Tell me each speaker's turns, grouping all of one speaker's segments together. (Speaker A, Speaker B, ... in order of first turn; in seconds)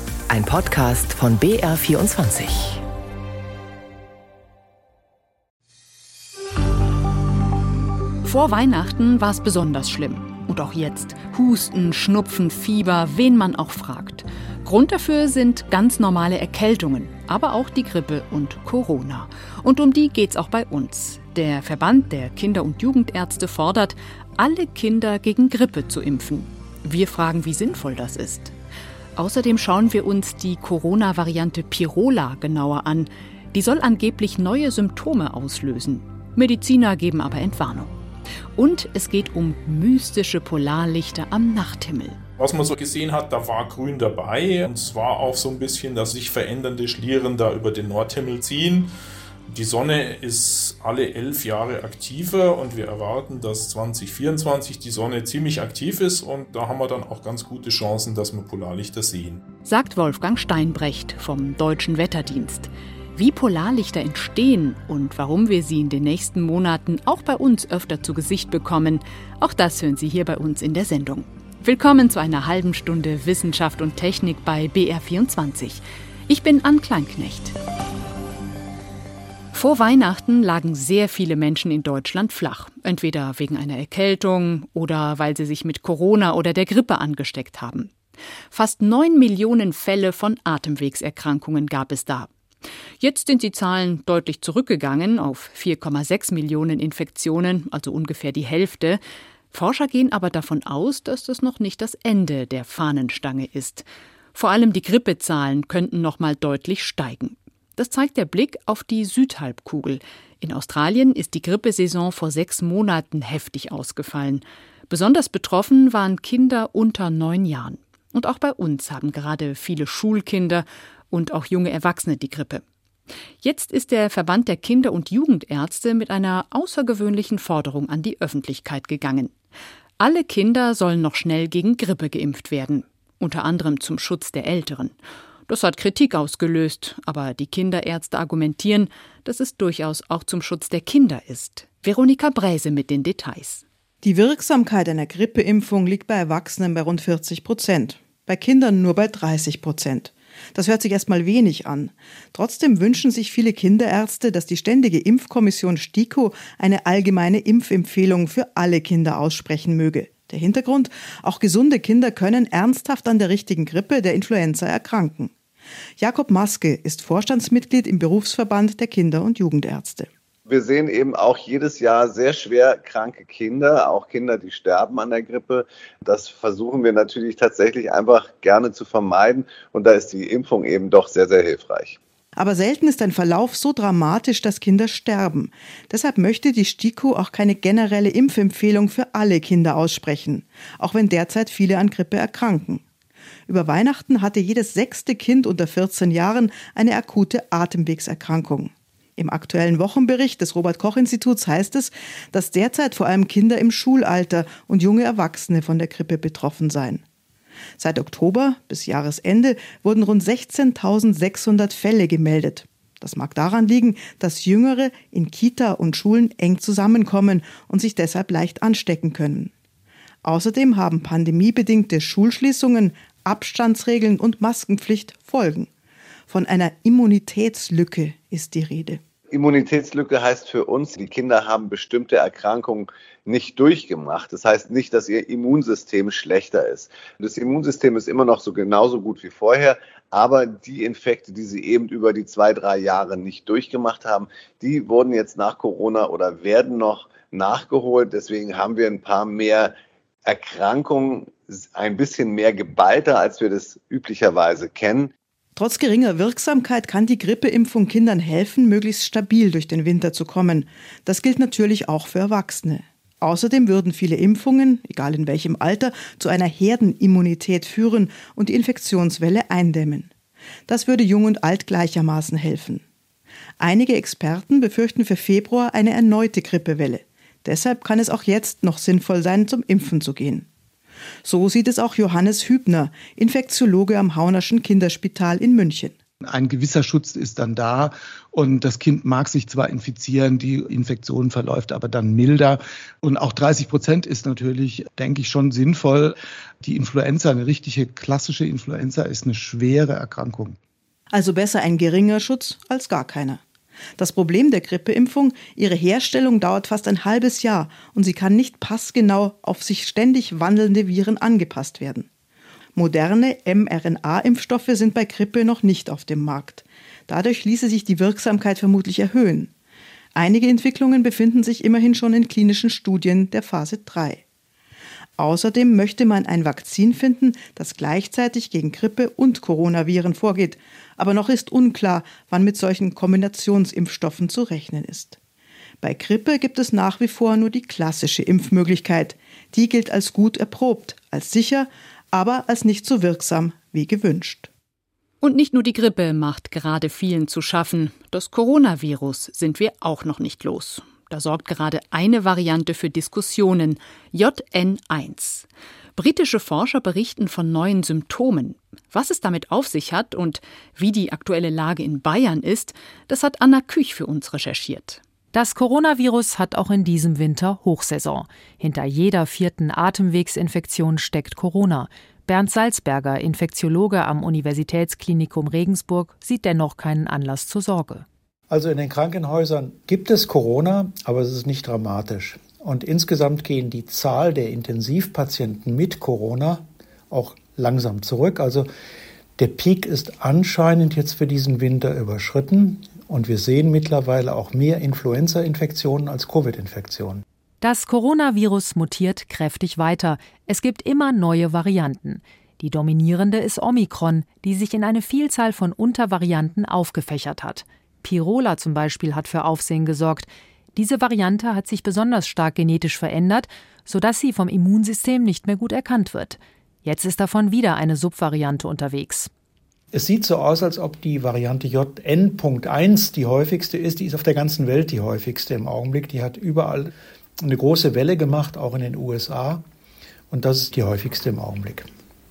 Speaker A: 0.3-2.8
Speaker B: 8.2-28.5, 29.2-37.9, 38.6-42.2, 59.6-77.5, 79.5-87.9, 88.5-92.3, 93.0-99.0, 99.5-122.6, 123.4-129.3, 130.0-135.0, 135.5-143.6, 345.2-365.0
Speaker C: 42.4-48.9, 49.5-59.4
Speaker D: 144.0-165.3, 166.0-170.1, 182.4-192.8, 193.5-207.0, 207.8-219.5, 220.2-225.7, 226.3-229.0, 255.6-270.1, 270.7-272.8, 273.6-280.5, 281.2-285.9, 301.1-303.4, 304.0-312.1, 312.8-319.5, 320.1-324.2, 325.2-335.2, 335.8-344.5
Speaker E: 170.5-182.0, 229.3-249.7, 250.3-255.1
Speaker F: 286.2-300.6
Speaker G: 365.3-378.1, 397.6-419.3
Speaker H: 378.5-388.7, 389.4-397.2, 419.9-429.6, 430.3-431.9